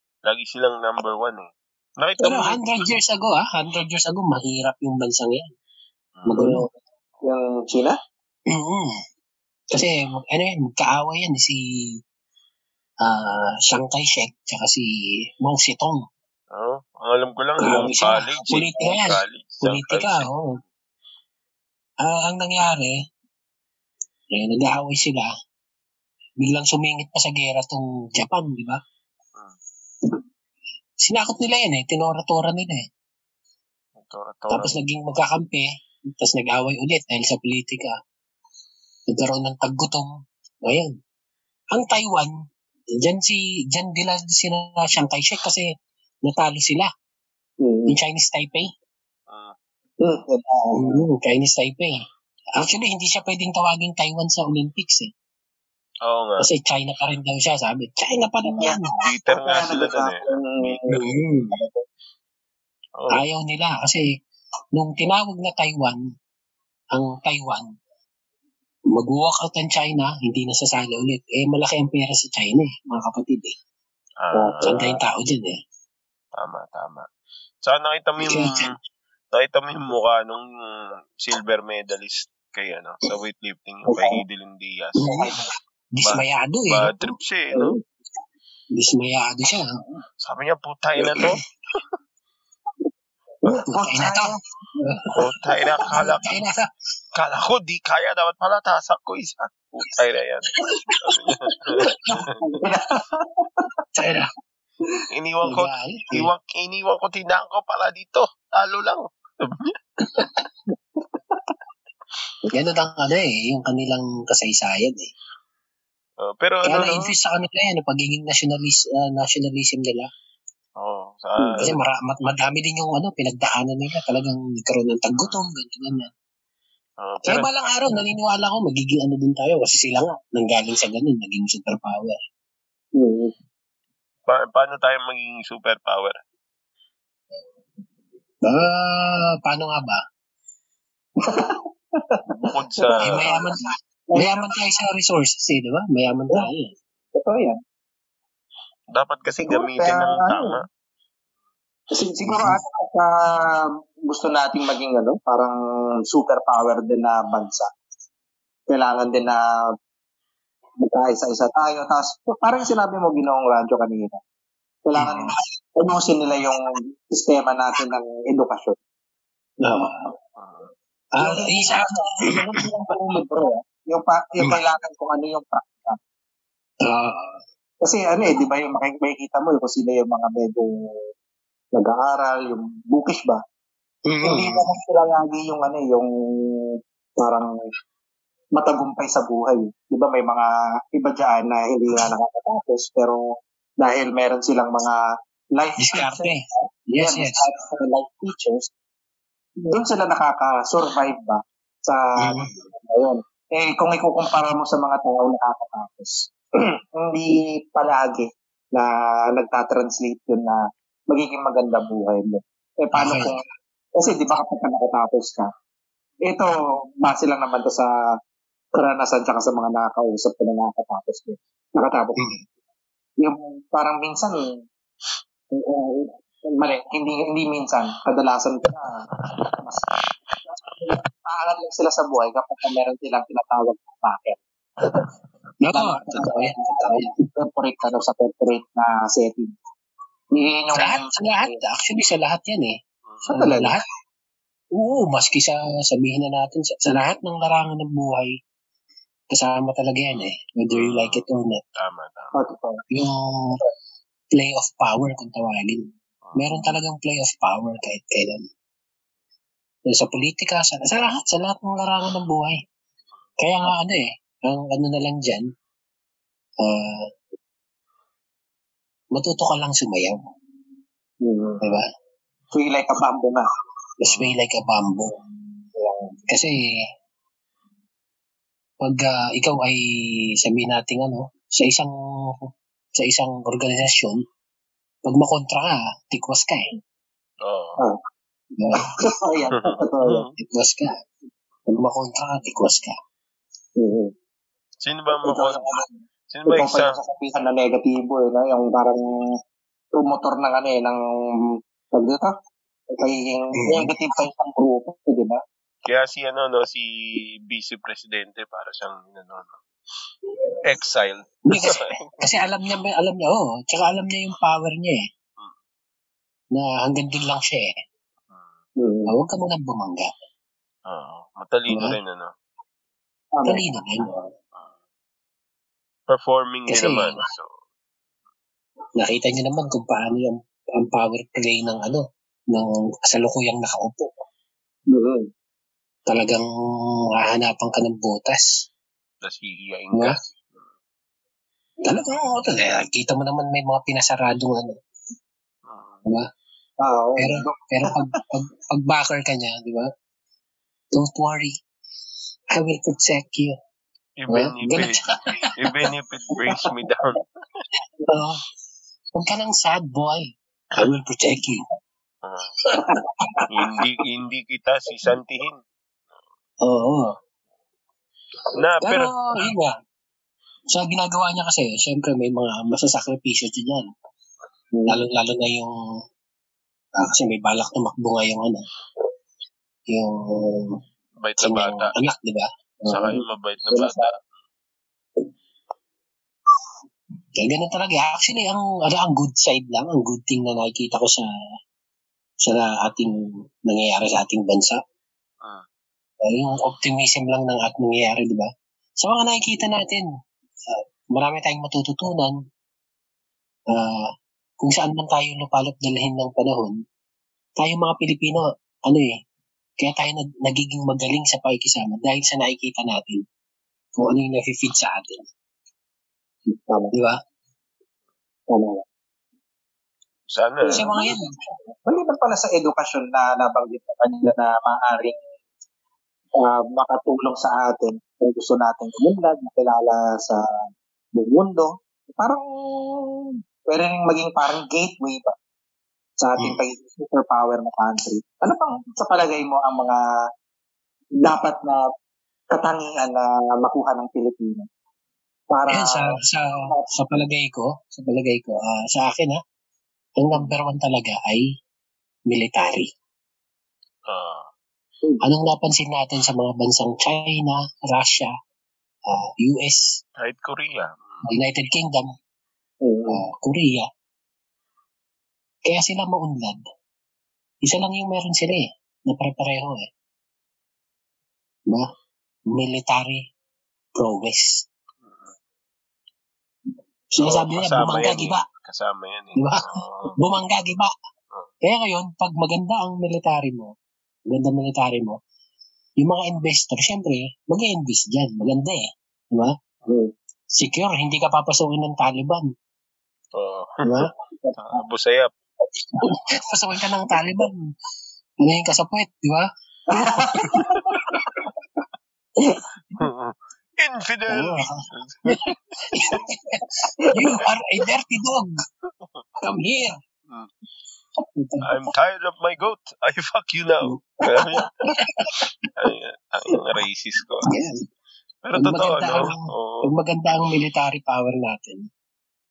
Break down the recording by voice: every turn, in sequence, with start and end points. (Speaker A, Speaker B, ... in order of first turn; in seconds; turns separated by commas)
Speaker A: 0.2-2.6, Speaker B: 2.2-5.5, Speaker A: 6.2-6.5, Speaker B: 6.2-6.7, Speaker C: 7.2-8.0, Speaker B: 8.5-9.0, Speaker B: 9.7-11.6, Speaker B: 13.0-14.9, Speaker B: 15.4-16.0, Speaker A: 16.5-20.3, Speaker B: 17.6-20.6, Speaker B: 22.0-22.9, Speaker B: 24.3-25.3, Speaker B: 26.4-28.8, Speaker B: 31.0-32.8, Speaker A: 34.0-34.8, Speaker B: 34.5-35.6, Speaker B: 36.2-38.0, Speaker B: 39.1-40.1, Speaker B: 40.6-40.9, Speaker B: 41.7-42.3, Speaker B: 42.9-45.7, Speaker B: 46.2-46.9, Speaker C: 47.6-48.0, Speaker B: 47.9-48.7, Speaker A: 49.3-49.5, Speaker C: 50.0-51.0, Speaker B: 50.7-52.0, Speaker B: 52.6-55.1, Speaker A: 56.0-56.5, Speaker B: 56.4-58.9, Speaker C: 58.4-61.8, Speaker A: 58.9-61.0, Speaker B: 60.9-61.5, Speaker A: 63.0-63.2, Speaker B: 63.1-64.0, Speaker B: 64.8-66.0, Speaker B: 66.9-67.7, Speaker B: 68.9-73.5, Speaker A: 74.2-75.0, Speaker C: 74.3-74.7, Speaker B: 74.6-75.5, Speaker A: 76.3-77.0, Speaker A: 77.6-78.7, Speaker B: 78.2-78.7, Speaker A: 79.3-85.1, Speaker C: 83.9-84.2, Speaker B: 85.0-85.3, Speaker C: 85.1-85.4, Speaker B: 85.9-86.9, Speaker A: 86.0-87.8, Speaker B: 88.7-89.7, Speaker A: 90.2-91.4, Speaker C: 93.4-94.4, Speaker B: 93.6-94.3, Speaker B: 94.8-95.1, Speaker A: 95.2-96.4, Speaker B: 95.8-96.7, Speaker A: 97.1-102.4, Speaker B: 100.7-101.2, Speaker C: 102.0-103.7, Speaker B: 103.9-104.3, Speaker A: 105.1-109.7, Speaker B: 105.4-106.3, Speaker B: 110.1-110.4, Speaker B: 112.5-115.1, Speaker A: 116.2-117.1, Speaker B: 116.6-120.1, Speaker A: 120.8-121.8, Speaker C: 121.4-121.7, Speaker B: 121.6-126.1, Speaker A: 127.0-127.5, Speaker B: 127.3-132.2, Speaker C: 133.0-133.3, Speaker A: 134.3-136.2, Speaker B: 138.4-140.0, Speaker C: 141.2-142.2, Speaker A: 142.4-143.3, Speaker C: 142.8-143.5, Speaker B: 143.0-143.6, Speaker C: 144.1-144.5, Speaker B: 144.1-146.7, Speaker C: 147.1-147.6, Speaker A: 148.9-150.7, Speaker C: 149.4-150.5, Speaker C: 151.9-153.6, Speaker B: 152.2-152.6, Speaker C: 154.1-155.6, Speaker C: 156.1-157.7, Speaker C: 158.7-159.4, Speaker C: 160.8-164.2, Speaker C: 164.8-168.8, Speaker B: 165.0-165.3, Speaker B: 169.6-170.1, Speaker A: 170.4-170.7, Speaker B: 171.2-172.6, Speaker C: 171.2-176.0, Speaker B: 176.8-177.4, Speaker C: 177.8-180.7, Speaker C: 181.7-183.4, Speaker B: 184.1-184.7, Speaker C: 184.2-186.7, Speaker C: 187.2-187.5, Speaker C: 188.6-193.2, Speaker C: 193.8-195.0, Speaker C: 195.5-198.7, Speaker B: 195.8-197.5, Speaker C: 199.6-213.4, Speaker B: 202.2-202.5, Speaker B: 212.9-213.3, Speaker C: 213.9-215.5, Speaker C: 216.2-217.9, Speaker C: 218.7-222.3, Speaker C: 223.2-224.4, Speaker C: 225.5-229.1, Speaker C: 229.6-229.8, Speaker C: 230.5-234.4, Speaker B: 235.6-237.1, Speaker C: 235.7-239.5, Speaker C: 240.3-241.6, Speaker B: 240.7-242.7, Speaker A: 243.1-243.3, Speaker C: 243.2-243.7, Speaker B: 243.3-243.8, Speaker B: 244.8-248.3, Speaker B: 249.3-251.6, Speaker A: 250.7-251.2, Speaker A: 251.8-252.3, Speaker C: 252.3-252.8, Speaker B: 252.9-253.6, Speaker B: 254.3-255.8, Speaker A: 256.2-256.5, Speaker B: 256.4-258.4, Speaker B: 259.9-262.6, Speaker B: 263.4-265.5, Speaker B: 266.6-267.1, Speaker B: 269.1-270.2, Speaker C: 271.2-271.7, Speaker B: 271.6-271.9, Speaker C: 272.5-273.5, Speaker B: 274.0-275.2, Speaker A: 274.1-274.4, Speaker C: 275.8-276.2, Speaker B: 276.3-276.5, Speaker B: 278.8-279.8, Speaker B: 280.4-284.2, Speaker B: 285.0-286.6, Speaker A: 287.4-287.8, Speaker B: 288.6-288.9, Speaker C: 288.8-290.3, Speaker A: 289.5-290.3, Speaker B: 290.4-290.9, Speaker B: 291.7-292.9, Speaker C: 293.8-294.1, Speaker A: 294.8-295.8, Speaker C: 295.1-295.9, Speaker A: 296.3-296.9, Speaker C: 296.5-299.2, Speaker C: 299.9-301.0, Speaker C: 301.9-302.3, Speaker C: 303.0-305.4, Speaker B: 303.6-303.9, Speaker A: 305.8-309.6, Speaker A: 310.6-312.2, Speaker B: 311.5-315.0, Speaker B: 316.5-317.7, Speaker A: 318.3-318.6, Speaker C: 318.8-319.1, Speaker B: 319.1-320.1, Speaker A: 320.9-322.3, Speaker B: 321.7-322.0, Speaker C: 323.4-324.2, Speaker B: 323.4-324.1, Speaker A: 326.1-327.5, Speaker B: 326.7-327.2, Speaker B: 329.0-334.2, Speaker C: 334.9-335.2, Speaker B: 336.1-336.4, Speaker B: 337.1-338.5, Speaker A: 339.2-340.7, Speaker B: 341.8-344.7, Speaker A: 345.6-346.0, Speaker C: 346.8-348.0, Speaker B: 347.2-349.9, Speaker B: 350.9-351.5, Speaker B: 352.5-353.5, Speaker A: 354.2-355.0, Speaker B: 354.3-355.7, Speaker A: 355.6-357.2, Speaker C: 356.4-356.7, Speaker B: 358.1-358.4, Speaker B: 359.1-361.6, Speaker A: 362.2-362.5, Speaker C: 362.8-363.8, Speaker A: 363.5-365.6, Speaker B: 366.6-367.1, Speaker A: 368.6-369.1, Speaker B: 368.8-369.7, Speaker B: 370.7-373.9, Speaker C: 374.7-375.0, Speaker B: 374.9-375.7, Speaker B: 376.9-378.6, Speaker B: 379.9-380.8, Speaker A: 381.2-381.9, Speaker B: 381.4-383.1, Speaker A: 382.9-384.2, Speaker C: 383.1-384.1, Speaker B: 387.4-391.3, Speaker B: 392.4-394.8, Speaker B: 396.2-398.5, Speaker B: 399.0-400.0, Speaker B: 400.7-402.3, Speaker B: 403.7-406.8, Speaker B: 407.6-409.1, Speaker B: 409.8-413.2, Speaker B: 413.9-415.2, Speaker C: 416.5-416.9, Speaker B: 416.9-417.2, Speaker C: 418.5-418.8, Speaker A: 420.3-420.9, Speaker C: 420.6-421.1, Speaker B: 420.7-421.3, Speaker C: 421.9-425.2, Speaker C: 426.4-430.4, Speaker C: 431.1-433.2, Speaker C: 433.7-435.3, Speaker C: 436.2-440.0, Speaker C: 441.2-441.8, Speaker C: 442.5-444.6, Speaker C: 445.5-446.1, Speaker B: 445.7-449.4, Speaker B: 450.2-451.5, Speaker B: 452.3-452.9, Speaker A: 454.1-454.5, Speaker B: 455.2-458.3, Speaker B: 459.1-460.0, Speaker A: 460.2-461.0, Speaker B: 461.2-462.1, Speaker C: 462.8-463.2, Speaker B: 463.1-463.9, Speaker B: 465.6-466.6, Speaker B: 467.6-469.9, Speaker B: 472.5-473.2, Speaker B: 474.0-474.6, Speaker A: 475.0-475.3, Speaker B: 477.1-478.4, Speaker A: 477.2-480.2, Speaker B: 479.4-480.9, Speaker B: 481.6-483.7, Speaker B: 484.3-485.2, Speaker B: 486.0-489.5, Speaker C: 489.9-490.1, Speaker B: 490.6-492.4, Speaker A: 493.3-495.3, Speaker B: 493.8-494.1, Speaker B: 496.1-497.6, Speaker B: 498.4-499.5, Speaker C: 499.9-501.2, Speaker A: 503.0-505.5, Speaker B: 504.3-505.4, Speaker B: 505.9-508.5, Speaker C: 507.0-507.4, Speaker B: 509.4-509.9, Speaker B: 511.4-511.7, Speaker A: 511.6-514.6, Speaker C: 514.3-515.0, Speaker B: 515.0-515.4, Speaker A: 515.8-517.5, Speaker B: 517.5-517.7, Speaker A: 518.4-519.9, Speaker B: 518.5-521.9